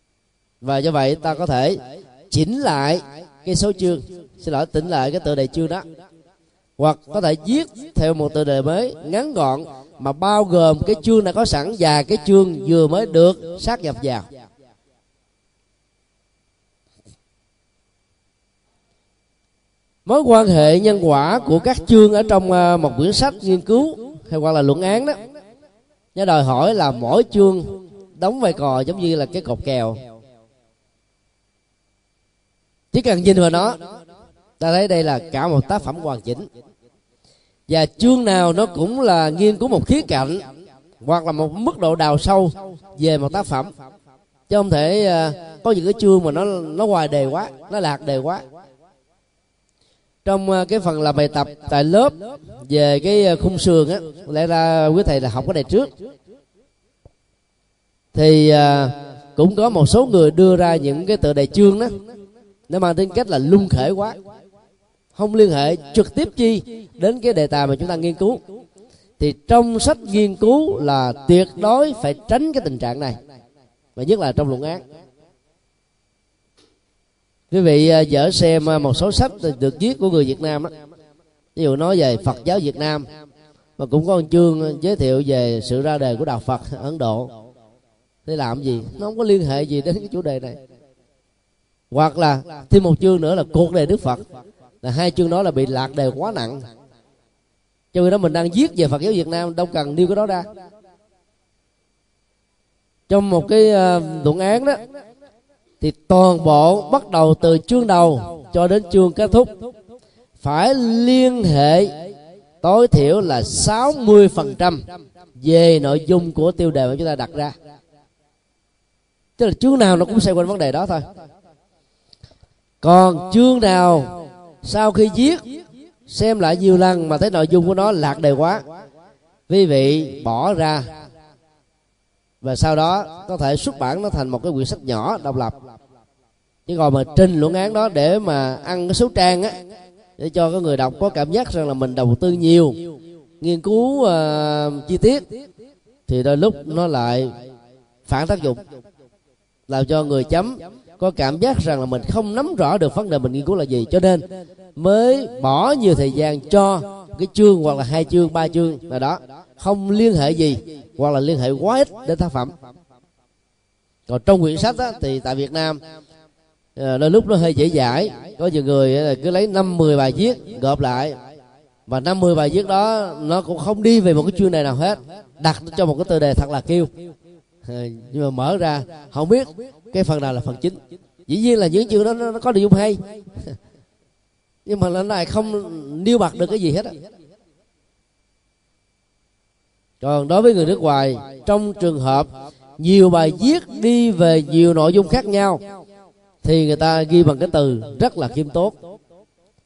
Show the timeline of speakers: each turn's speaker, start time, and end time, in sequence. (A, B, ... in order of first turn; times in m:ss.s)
0:00.6-0:05.8 A
0:06.8-0:14.2 A
0:20.0-0:25.2 A
0:26.1-0:30.0 A
0:32.9-0:33.8 A
0:34.6-0:36.4 A
0:37.7-0:40.4 A
0:41.0-0:43.7 A
0:44.5-0:48.4 A
0:50.2-0:55.9 A
0:58.1-1:01.9 A
1:02.7-1:04.2 A
1:05.1-1:08.4 A
1:09.2-1:13.2 A
1:14.0-1:14.8 A
1:17.5-1:20.7 A
1:21.6-1:23.1 A
1:23.8-1:27.3 A
1:28.2-1:30.6 A
1:31.9-1:34.2 A
1:34.8-1:36.6 A
1:37.9-1:40.5 A
1:43.1-1:44.8 A
1:45.8-1:49.5 A
1:50.4-1:51.9 A
1:52.6-1:54.8 A
1:55.4-1:57.5 A
1:59.4-2:01.0 A
2:02.8-2:05.4 A
2:06.1-2:08.6 A
2:09.5-2:10.9 A
2:12.4-2:15.6 A
2:16.7-2:19.6 A
2:20.2-2:22.8 A
2:23.4-2:25.2 A
2:26.1-2:27.3 A
2:28.0-2:28.6 A
2:29.7-2:34.2 A
2:34.8-2:42.5 A
2:44.1-2:45.8 A
2:46.8-2:51.2 A
2:51.9-2:56.9 A
2:57.6-3:03.6 A
3:04.6-3:07.0 A
3:10.0-3:12.3 A
3:12.8-3:15.6 A
3:16.4-3:18.8 A